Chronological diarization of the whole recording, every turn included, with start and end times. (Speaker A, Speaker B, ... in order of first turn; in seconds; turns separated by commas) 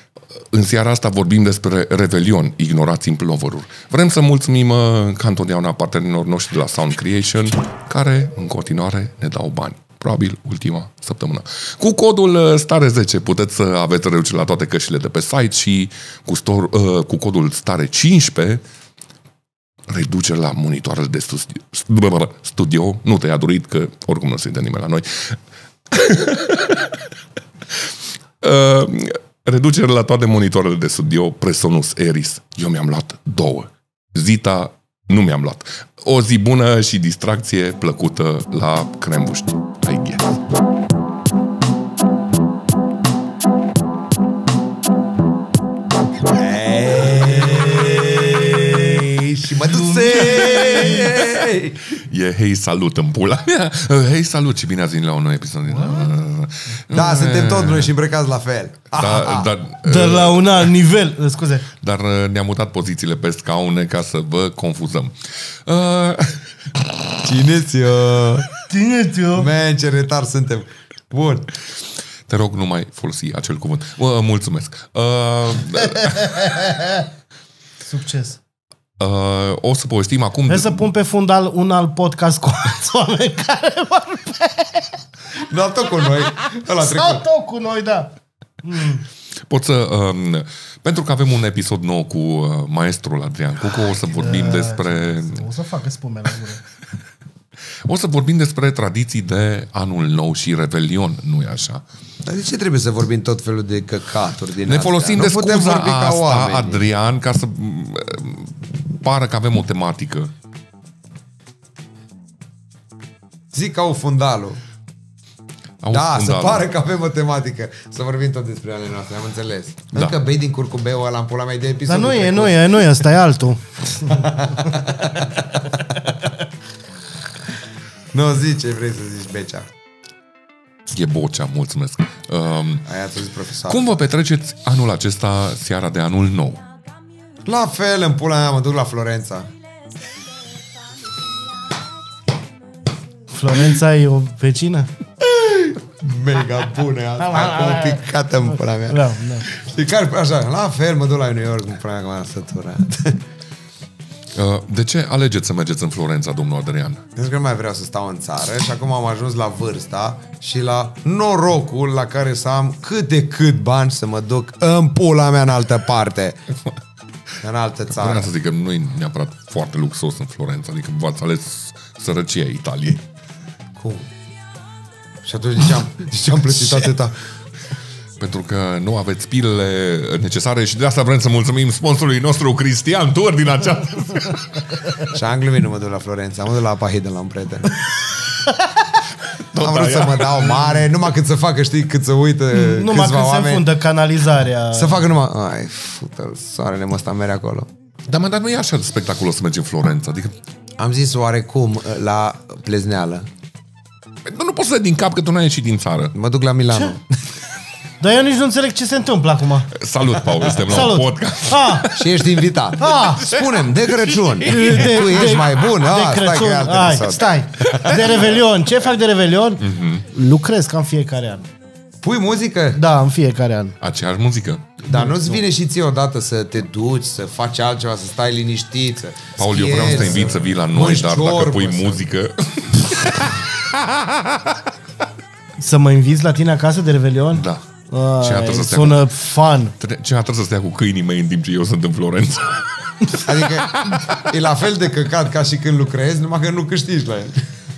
Speaker A: 0.5-18.6, Speaker A: 19.9-25.4, Speaker A: 25.9-27.0, Speaker A: 28.4-40.4, Speaker B: 46.2-51.8, Speaker C: 49.6-51.1, Speaker A: 51.9-57.9, Speaker C: 55.7-56.1, Speaker B: 56.9-59.5, Speaker A: 58.9-60.7, Speaker C: 59.9-61.7, Speaker A: 61.8-65.1, Speaker A: 65.7-66.5, Speaker B: 67.2-68.5, Speaker C: 68.7-69.5, Speaker B: 69.4-71.5, Speaker A: 72.3-76.5, Speaker C: 76.0-77.1, Speaker C: 77.8-78.4, Speaker A: 79.0-80.9, Speaker C: 80.5-84.9, Speaker B: 85.5-87.2, Speaker C: 86.7-89.0, Speaker A: 89.5-95.5, Speaker C: 94.0-96.6, Speaker A: 97.8-101.8, Speaker B: 102.2-106.8, Speaker A: 104.6-110.3, Speaker B: 113.5-114.6, Speaker A: 115.8-116.7, Speaker B: 115.9-122.9, Speaker C: 121.9-124.3, Speaker B: 124.0-125.8, Speaker B: 128.1-129.7, Speaker A: 130.9-132.9, Speaker B: 132.8-133.9, Speaker A: 133.7-136.6, Speaker B: 137.4-139.5, Speaker C: 143.3-144.9, Speaker B: 145.2-153.2, Speaker C: 147.2-149.5, Speaker A: 154.3-157.1, Speaker B: 157.2-166.4, Speaker B: 167.4-168.3, Speaker A: 167.9-173.0, Speaker B: 173.8-174.1, Speaker B: 175.2-177.2, Speaker A: 178.2-184.6, Speaker B: 185.1-187.7, Speaker A: 189.3-190.8, Speaker B: 189.6-193.7, Speaker C: 192.5-195.1, Speaker B: 194.7-197.7, Speaker A: 198.1-200.4, Speaker B: 200.8-203.3, Speaker A: 204.3-206.2, Speaker B: 206.1-207.0, Speaker C: 208.0-209.7, Speaker A: 209.7-212.2, Speaker C: 210.6-211.9, Speaker B: 211.9-218.4, Speaker C: 212.8-213.4, Speaker A: 212.9-214.8, Speaker C: 214.4-221.5, Speaker A: 219.6-220.1, Speaker B: 222.0-222.8, Speaker C: 222.7-223.8, Speaker A: 223.8-224.7, Speaker B: 224.8-232.1, Speaker C: 224.9-225.4, Speaker A: 229.4-234.6, Speaker C: 235.6-239.8, Speaker A: 237.3-237.7, Speaker A: 238.2-239.1, Speaker A: 239.8-244.3, Speaker B: 243.2-247.5